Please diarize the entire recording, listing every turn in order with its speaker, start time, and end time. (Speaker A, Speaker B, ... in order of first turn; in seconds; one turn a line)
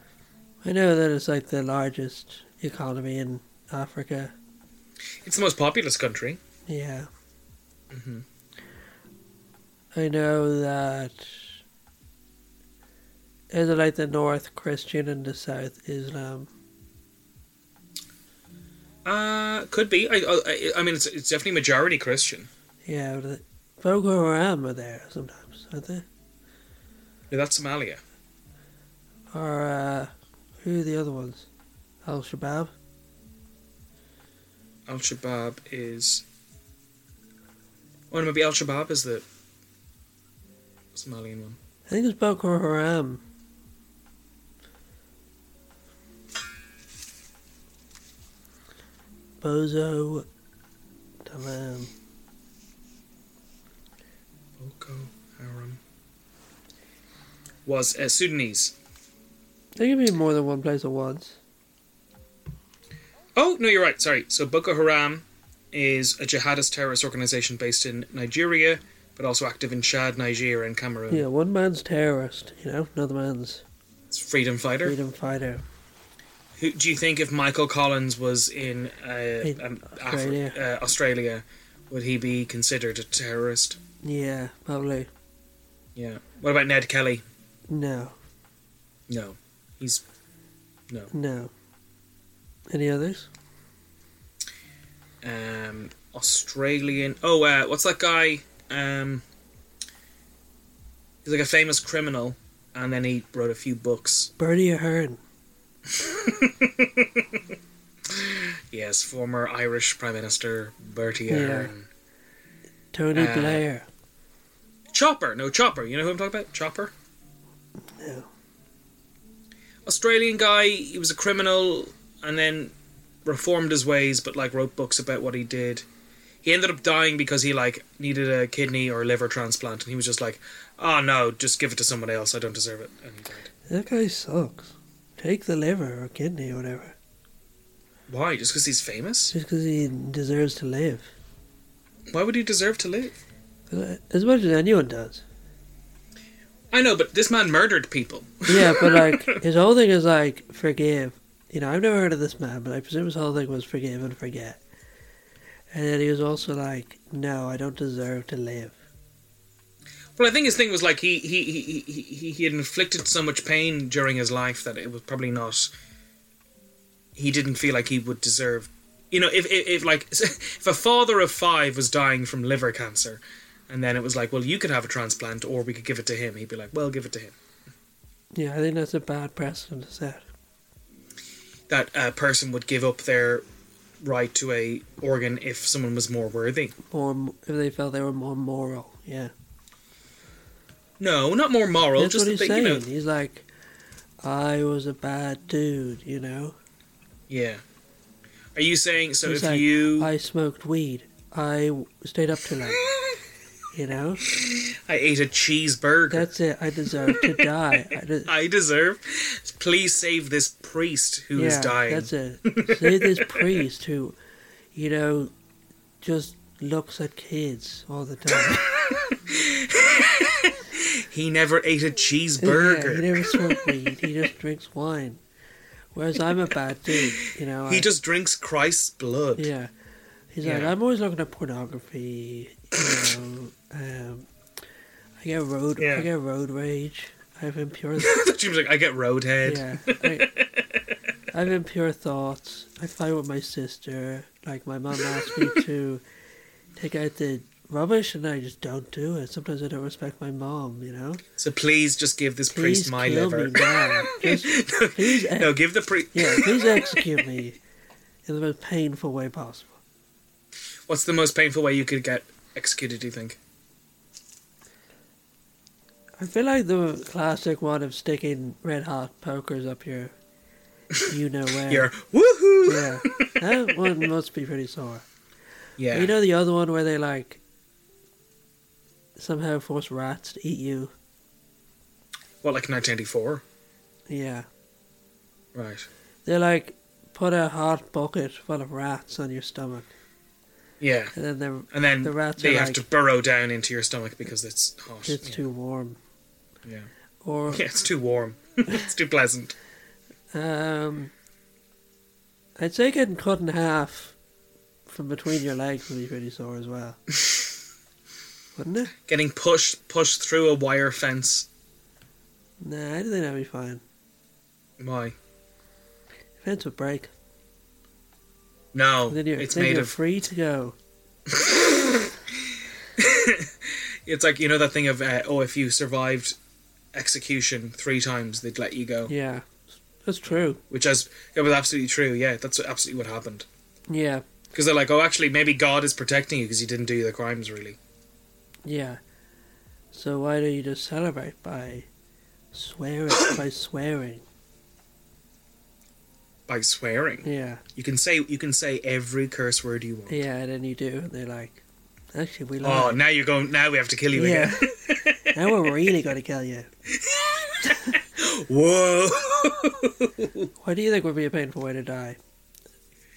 Speaker A: 0.6-4.3
Speaker B: 5.2-6.4
Speaker A: 6.7-7.1
Speaker B: 7.9-8.2
Speaker A: 9.9-11.6
Speaker A: 13.5-16.5
Speaker B: 19.0-22.5
Speaker A: 22.8-26.1
Speaker B: 27.3-28.0
Speaker A: 29.3-30.1
Speaker A: 30.6-31.5
Speaker A: 32.0-32.7
Speaker B: 34.9-36.2
Speaker B: 38.1-39.2
Speaker B: 40.9-41.6
Speaker A: 41.9-43.2
Speaker A: 49.4-50.2
Speaker A: 51.2-51.9
Speaker B: 54.6-55.8
Speaker B: 57.6-58.7
Speaker A: 59.8-61.4
Speaker B: 63.4-71.2
Speaker A: 71.1-73.6
Speaker B: 74.1-75.0
Speaker A: 74.8-75.6
Speaker B: 76.6-83.8
Speaker A: 79.4-80.6
Speaker A: 84.0-85.1
Speaker B: 86.0-87.2
Speaker A: 87.7-88.2
Speaker B: 89.1-90.0
Speaker A: 91.1-91.5
Speaker A: 92.7-93.3
Speaker B: 95.2-99.2
Speaker B: 101.2-104.3
Speaker A: 104.4-105.2
Speaker B: 105.9-107.4
Speaker B: 108.0-111.9
Speaker A: 111.3-111.7
Speaker A: 112.9-113.8
Speaker B: 113.1-113.6
Speaker B: 114.9-116.9
Speaker A: 117.9-118.3
Speaker B: 119.8-122.7
Speaker B: 123.2-125.8
Speaker B: 126.4-133.5
Speaker A: 133.7-136.9
Speaker B: 138.1-139.3
Speaker A: 139.3-141.1
Speaker B: 142.1-143.2
Speaker A: 143.7-145.2
Speaker B: 146.7-149.4
Speaker A: 148.5-154.6
Speaker A: 155.7-158.8
Speaker B: 160.2-165.7
Speaker B: 167.2-177.3
Speaker A: 178.3-180.2
Speaker B: 181.7-183.4
Speaker B: 184.0-186.7
Speaker A: 186.9-189.3
Speaker B: 191.0-192.8
Speaker A: 192.0-193.5
Speaker A: 194.2-196.6
Speaker B: 197.3-197.6
Speaker B: 198.5-200.1
Speaker A: 199.2-202.8
Speaker B: 202.7-203.2
Speaker A: 203.7-204.3
Speaker B: 204.2-206.3
Speaker A: 206.1-208.3
Speaker B: 207.0-207.5
Speaker B: 208.2-213.6
Speaker A: 211.3-214.2
Speaker A: 214.7-215.3
Speaker A: 216.0-218.7
Speaker B: 218.3-223.7
Speaker A: 222.4-225.2
Speaker A: 225.9-227.9
Speaker B: 227.7-229.5
Speaker A: 229.4-229.7
Speaker A: 230.3-234.3
Speaker B: 230.4-230.7
Speaker B: 232.8-233.1
Speaker A: 235.2-238.2
Speaker B: 235.8-236.1
Speaker B: 238.0-240.9
Speaker A: 239.4-240.3
Speaker A: 241.3-246.0
Speaker B: 245.1-245.6
Speaker A: 246.8-251.2
Speaker B: 251.4-257.2
Speaker A: 252.5-255.5
Speaker A: 256.1-257.6
Speaker A: 258.2-259.8
Speaker B: 260.9-263.4
Speaker A: 266.2-270.1
Speaker A: 271.1-271.9
Speaker B: 271.6-273.3
Speaker A: 272.6-275.0
Speaker B: 275.8-276.1
Speaker A: 275.9-277.4
Speaker A: 279.2-280.9
Speaker B: 282.4-283.4
Speaker A: 284.1-284.4
Speaker B: 285.5-285.9
Speaker A: 286.2-289.9
Speaker B: 290.8-291.1
Speaker A: 291.1-292.8
Speaker B: 291.7-295.4
Speaker A: 295.0-296.0
Speaker A: 297.2-297.6
Speaker B: 297.5-299.5
Speaker A: 300.3-301.1
Speaker A: 302.6-304.1
Speaker A: 304.9-307.0
Speaker A: 308.5-308.9
Speaker B: 309.1-311.5
Speaker A: 312.6-313.8
Speaker B: 314.8-315.1
Speaker A: 316.4-317.1
Speaker B: 318.7-319.9
Speaker A: 319.1-320.8
Speaker B: 321.3-326.4
Speaker B: 326.9-329.1
Speaker A: 329.1-330.6
Speaker B: 330.6-333.4
Speaker A: 333.9-334.2
Speaker B: 334.5-337.8
Speaker A: 338.6-339.0
Speaker A: 339.9-341.9
Speaker A: 342.5-344.2
Speaker B: 346.5-350.2
Speaker A: 347.2-347.6
Speaker A: 350.1-351.6
Speaker A: 352.1-353.0
Speaker B: 352.6-355.7
Speaker A: 354.1-354.7
Speaker A: 355.3-356.7
Speaker B: 356.9-360.5
Speaker A: 360.6-362.2